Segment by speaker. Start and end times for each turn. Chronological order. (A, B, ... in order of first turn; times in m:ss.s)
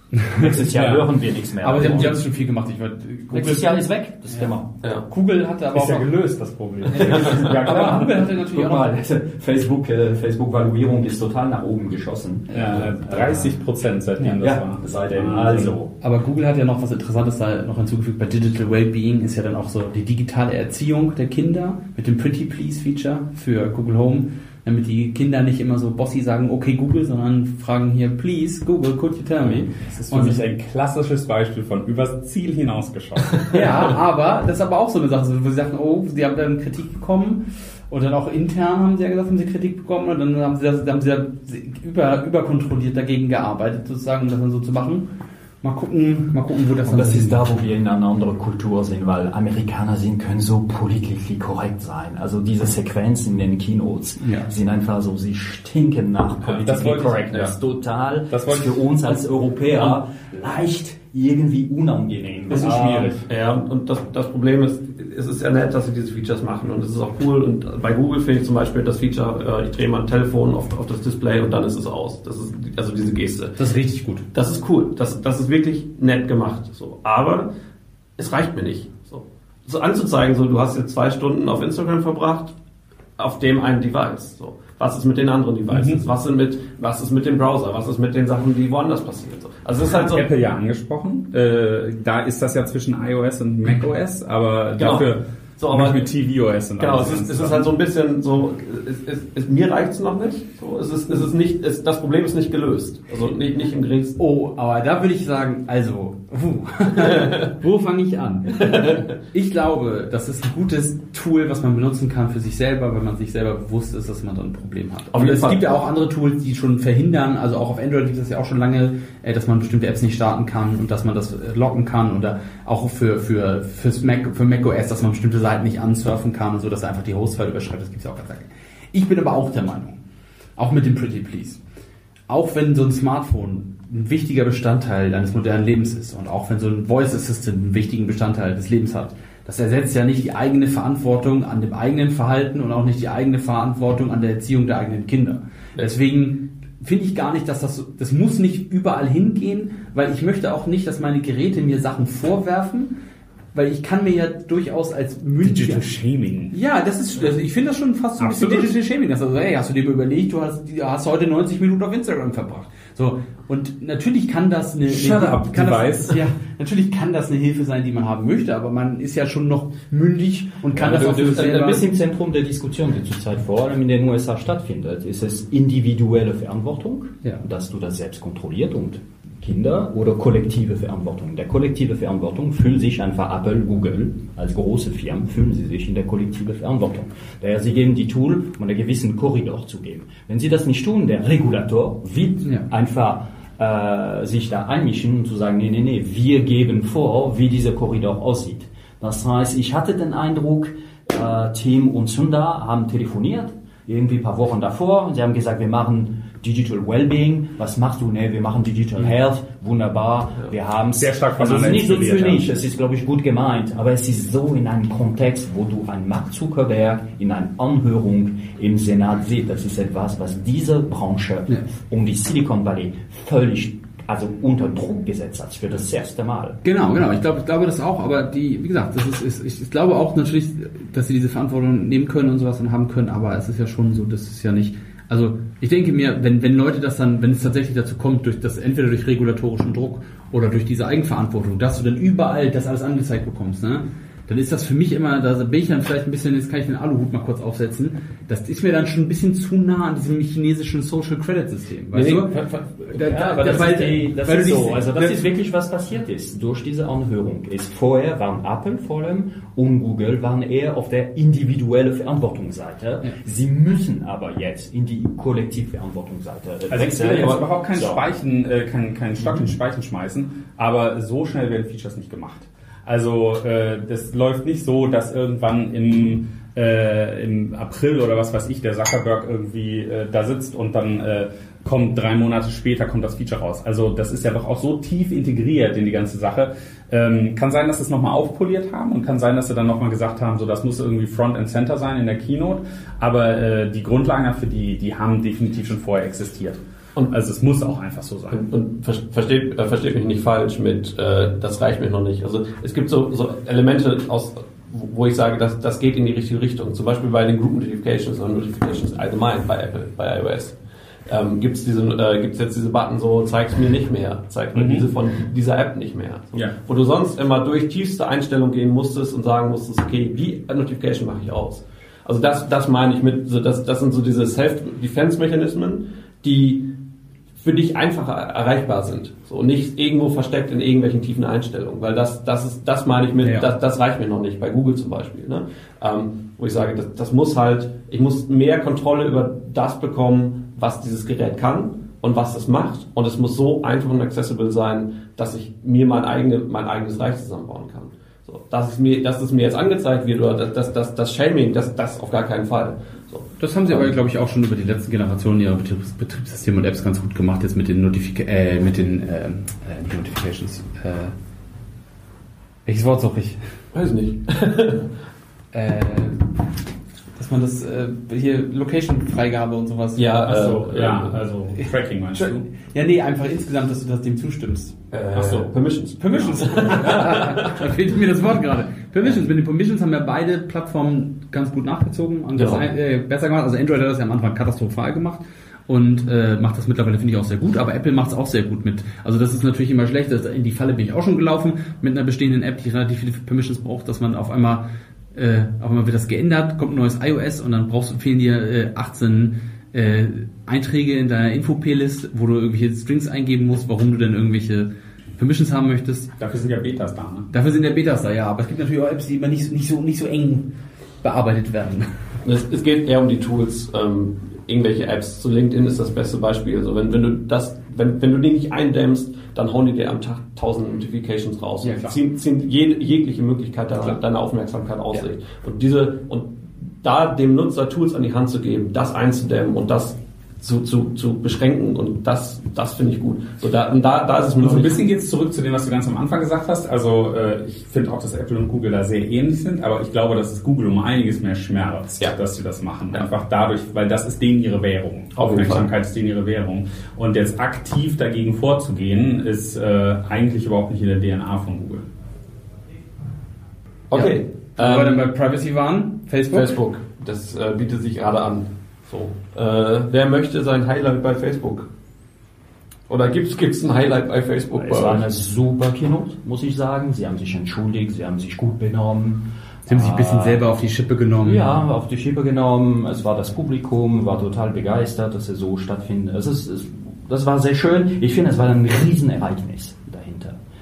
0:00.2-0:00.5 A
0:00.3-0:02.2 B
0:00.7-0:01.0 C
0:01.6-0:04.5 A
0:03.3-0:04.7 B
0:05.0-0:06.1 A
0:05.7-0:08.3 C
0:06.9-0:09.0 A
0:07.1-0:13.6 B
0:12.5-0:15.8 C
0:14.4-0:15.9 B
0:16.0-0:30.4 A
0:29.4-0:33.9 C
0:33.5-0:45.1 A
0:45.6-0:47.4 A
0:46.8-1:03.2 B
0:54.2-0:54.5 A
0:56.6-0:57.4 C
0:58.3-0:59.1 C
1:02.5-1:03.1 C
1:03.3-1:13.6 D
1:13.6-1:14.2 A
1:14.3-1:17.5 D
1:18.2-1:22.5 D
1:23.2-1:30.3 D
1:25.7-1:26.0 C
1:29.8-1:37.7 C
1:34.8-1:36.0 D
1:36.8-1:44.2 D
1:44.2-2:10.0 A
1:47.0-1:47.5 D
1:48.6-1:49.0 D
1:55.1-1:55.6 D
2:10.6-2:11.6 A
2:12.3-2:32.9 A
2:33.5-2:35.8 A
2:35.4-2:36.5 C
2:36.5-2:51.8 A
2:38.2-2:38.7 C
2:44.9-2:46.2 C
2:50.8-3:46.6 B
2:50.9-2:51.4 D
3:31.0-3:32.4 C
3:46.6-4:15.2 A
4:11.9-4:12.5 D
4:13.0-4:28.0 B
4:26.7-4:58.4 C
4:58.3-5:26.7 D
5:14.5-5:14.9 C
5:27.4-5:53.9 D
5:33.2-5:33.5 A
5:53.4-6:01.1 A
6:02.6-6:03.4 A
6:03.7-6:04.9 D
6:05.5-6:06.4 A
6:07.2-6:10.2 A
6:10.0-6:11.2 D
6:10.2-6:12.4 C
6:11.6-6:14.7 A
6:14.9-6:17.6 D
6:15.1-6:15.5 C
6:16.0-6:34.6 A
6:22.4-6:22.6 D
6:35.1-6:46.1 A
6:46.2-6:47.3 C
6:47.3-6:50.5 A
6:51.0-6:52.0 A
6:52.2-7:14.8 D
7:01.6-7:02.0 A
7:14.4-7:31.8 C
7:25.2-7:25.7 D
7:33.9-7:35.0 D
7:33.9-7:36.5 A
7:36.3-7:41.7 D
7:42.9-7:45.0 D
7:44.6-7:50.4 B
7:49.7-7:51.6 A
7:51.2-8:00.4 B